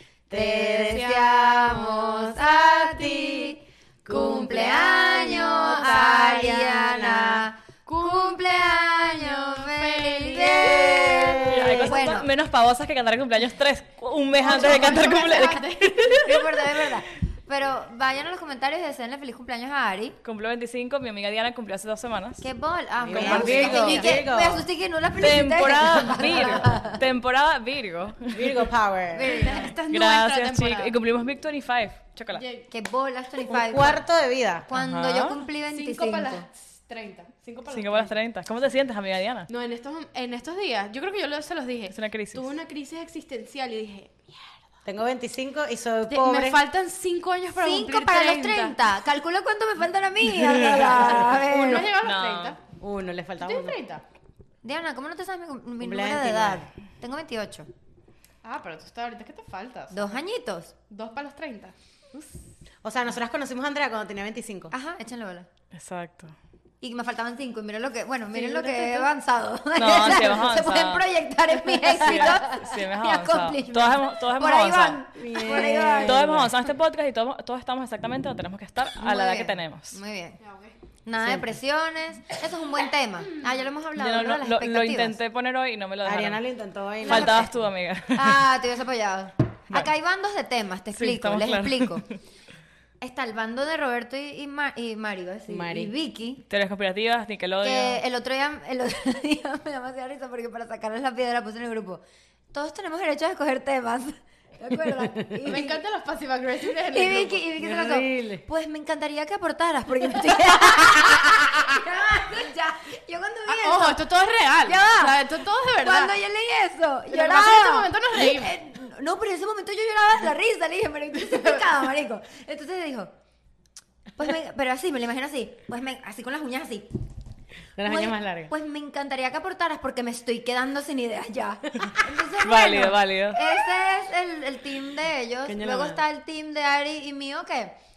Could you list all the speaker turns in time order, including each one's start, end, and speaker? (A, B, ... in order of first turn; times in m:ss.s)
0:00.3-0:03.6 A
0:00.3-0:12.3 B
0:04.0-0:07.5 A
0:05.1-0:06.3 C
0:07.9-0:10.7 C
0:10.3-0:11.9 A
0:11.5-0:16.9 D
0:14.3-0:16.3 C
0:16.2-0:20.2 B
0:20.2-0:22.4 D
0:22.4-0:27.0 B
0:23.0-0:24.6 A
0:23.1-0:24.0 D
0:23.6-0:24.0 C
0:25.2-0:28.6 D
0:28.3-0:29.3 A
0:29.1-0:29.8 B
0:29.3-0:30.9 C
0:29.9-0:32.4 D
0:32.3-0:32.7 C
0:32.7-0:34.0 B
0:33.5-0:34.7 A
0:34.7-0:36.5 B
0:34.7-0:35.4 D
0:35.7-0:38.2 C
0:37.7-0:39.5 D
0:39.5-0:44.5 C
0:41.9-0:42.5 D
0:44.8-0:46.7 A
0:46.1-0:48.8 C
0:47.5-0:51.9 B
0:50.9-0:52.6 C
0:52.0-0:52.6 D
0:52.8-0:53.8 A
0:53.4-0:54.0 C
0:54.6-0:57.7 B
0:55.8-0:56.7 A
0:58.4-1:00.2 C
0:59.9-1:00.7 B
1:00.9-1:02.2 C
1:02.8-1:04.7 A
1:04.7-1:05.5 B
1:05.7-1:06.3 D
1:06.8-1:16.5 B
1:08.3-1:09.1 C
1:09.8-1:11.0 D
1:11.9-1:15.0 D
1:15.2-1:16.6 A
1:15.6-1:20.0 D
1:19.0-1:20.4 B
1:20.4-1:20.8 C
1:21.1-1:25.2 B
1:24.0-1:26.4 D
1:26.0-1:27.5 A
1:27.0-1:28.4 D
1:27.1-1:27.5 B
1:28.1-1:32.0 B
1:31.0-1:32.1 D
1:33.0-1:36.4 B
1:35.5-1:35.9 A
1:36.5-1:38.0 D
1:37.6-1:45.8 B
1:45.2-1:45.5 A
1:45.4-1:47.4 C
1:46.9-1:54.0 B
1:47.6-1:48.4 A
1:50.8-1:51.3 A
1:53.5-1:56.2 C
1:54.6-2:03.1 B
1:57.1-1:58.6 C
2:04.2-2:06.9 B
2:07.8-2:08.5 A
2:07.8-2:17.8 B
2:12.4-2:13.4 D
2:15.5-2:16.0 A